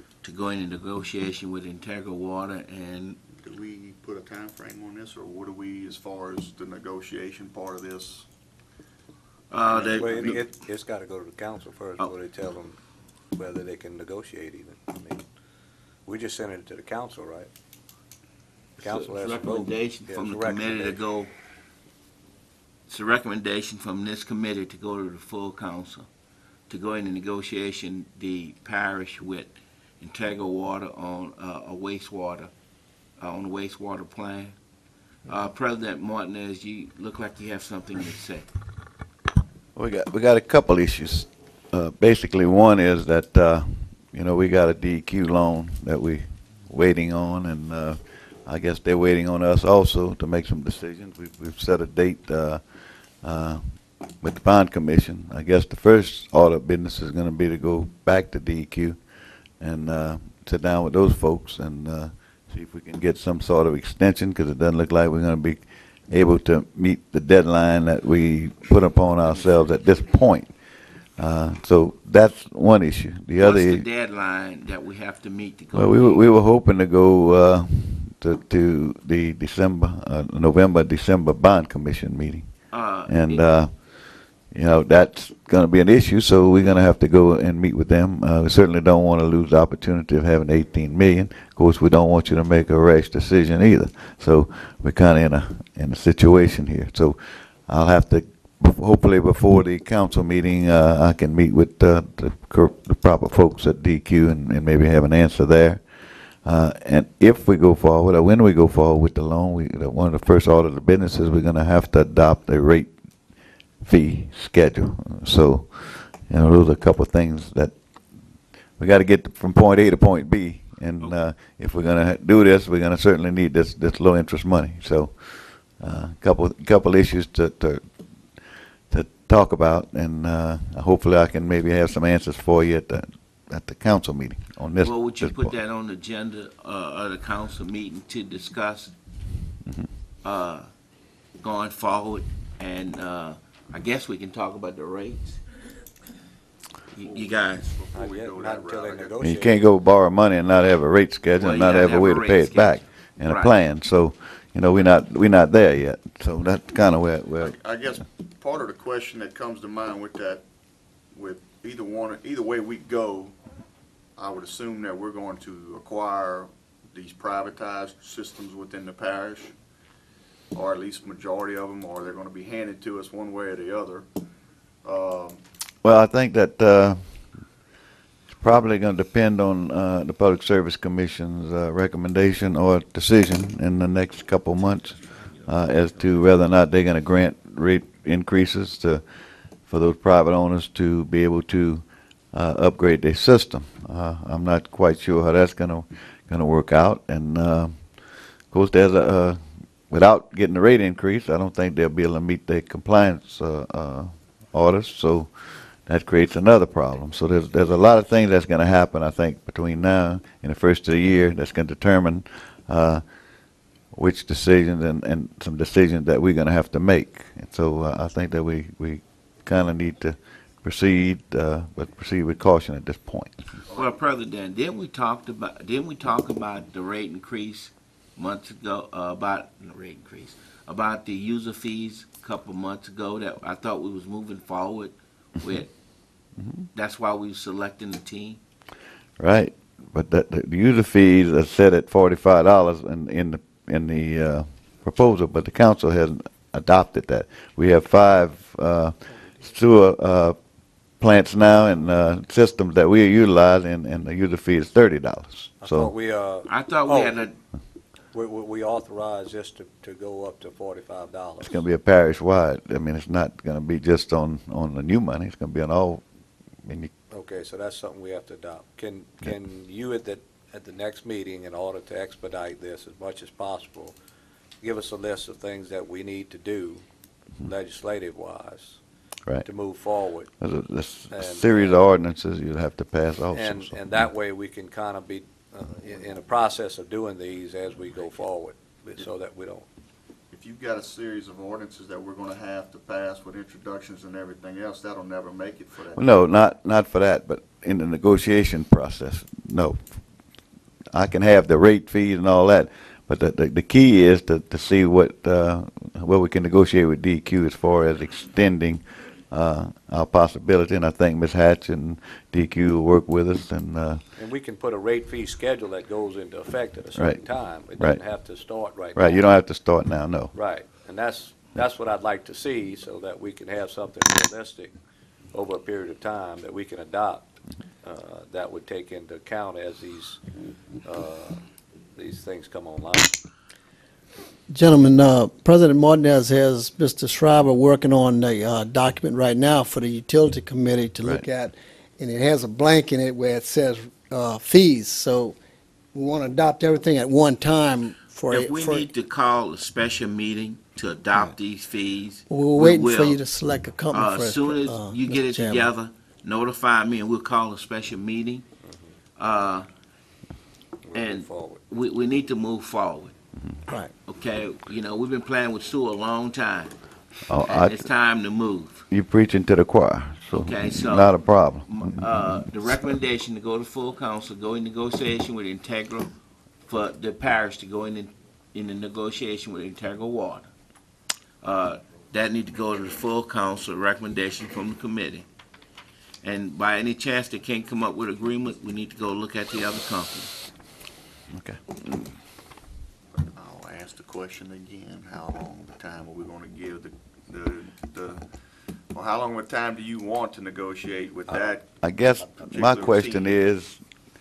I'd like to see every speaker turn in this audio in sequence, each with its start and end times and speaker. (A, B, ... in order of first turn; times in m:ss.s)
0:00.2-0:03.2 A
0:03.3-0:08.3 B
0:09.5-0:10.4 A
0:09.7-0:10.4 B
0:09.7-0:12.8 C
0:13.3-0:15.2 C
0:16.0-0:17.5 C
0:18.8-0:21.3 A
0:18.8-0:21.0 C
0:22.9-0:26.1 A
0:26.7-0:32.5 A
0:33.2-0:34.5 A
0:35.3-0:38.5 A
0:39.7-0:52.6 D
0:53.2-0:59.0 D
0:59.6-1:10.5 D
1:09.2-1:09.7 A
1:11.2-1:13.8 D
1:13.4-1:16.3 A
1:15.7-1:22.5 D
1:22.7-1:23.4 A
1:23.0-1:45.8 D
1:46.4-1:52.9 D
1:53.8-1:57.7 D
1:58.8-2:07.9 D
2:08.4-2:15.5 D
2:14.8-2:18.9 A
2:20.2-2:20.7 A
2:21.4-2:25.4 A
2:26.9-2:27.7 A
2:27.0-2:29.2 B
2:27.9-2:29.6 C
2:29.2-2:37.6 D
2:31.4-2:33.5 A
2:37.4-2:40.4 B
2:41.1-2:43.4 B
2:44.2-2:49.5 B
2:50.5-2:54.0 B
2:54.8-2:55.4 B
2:55.8-2:57.2 D
2:58.3-3:09.0 D
3:09.6-3:33.0 D
3:33.9-3:43.4 D
3:43.7-3:55.7 A
3:56.4-3:56.7 D
3:56.7-3:58.4 A
3:59.2-4:10.4 D
4:11.0-4:15.9 D
4:15.6-4:17.2 C
4:16.5-4:17.4 A
4:18.1-4:21.5 C
4:21.4-4:26.0 D
4:26.6-4:26.9 D
4:27.1-4:34.0 C
4:34.6-4:36.8 C
4:37.4-4:38.8 C
4:39.4-4:40.3 C
4:40.4-4:43.8 D
4:41.1-4:41.8 C
4:43.3-4:49.7 C
4:50.3-4:56.1 B
4:55.9-5:00.0 D
5:00.9-5:14.0 D
5:14.2-5:19.3 C
5:16.9-5:18.0 D
5:18.9-5:20.3 D
5:20.3-5:24.7 C
5:25.3-5:27.2 C
5:27.8-5:30.2 C
5:30.8-5:31.4 C
5:32.0-5:33.2 C
5:34.5-5:45.4 E
5:45.9-5:48.9 E
5:48.3-5:53.2 A
5:52.3-5:55.7 E
5:53.9-5:58.4 A
5:58.6-5:58.9 C
5:59.2-5:59.7 A
6:00.9-6:01.6 C
6:00.9-6:03.1 A
6:04.1-6:06.7 A
6:07.3-6:07.8 D
6:07.5-6:08.8 A
6:08.9-6:12.0 D
6:10.4-6:16.1 A
6:16.7-6:20.5 A
6:21.4-6:25.3 A
6:26.2-6:30.3 A
6:31.3-6:31.8 D
6:33.2-6:38.3 B
6:38.9-6:41.6 B
6:41.8-6:43.8 D
6:42.5-6:43.3 B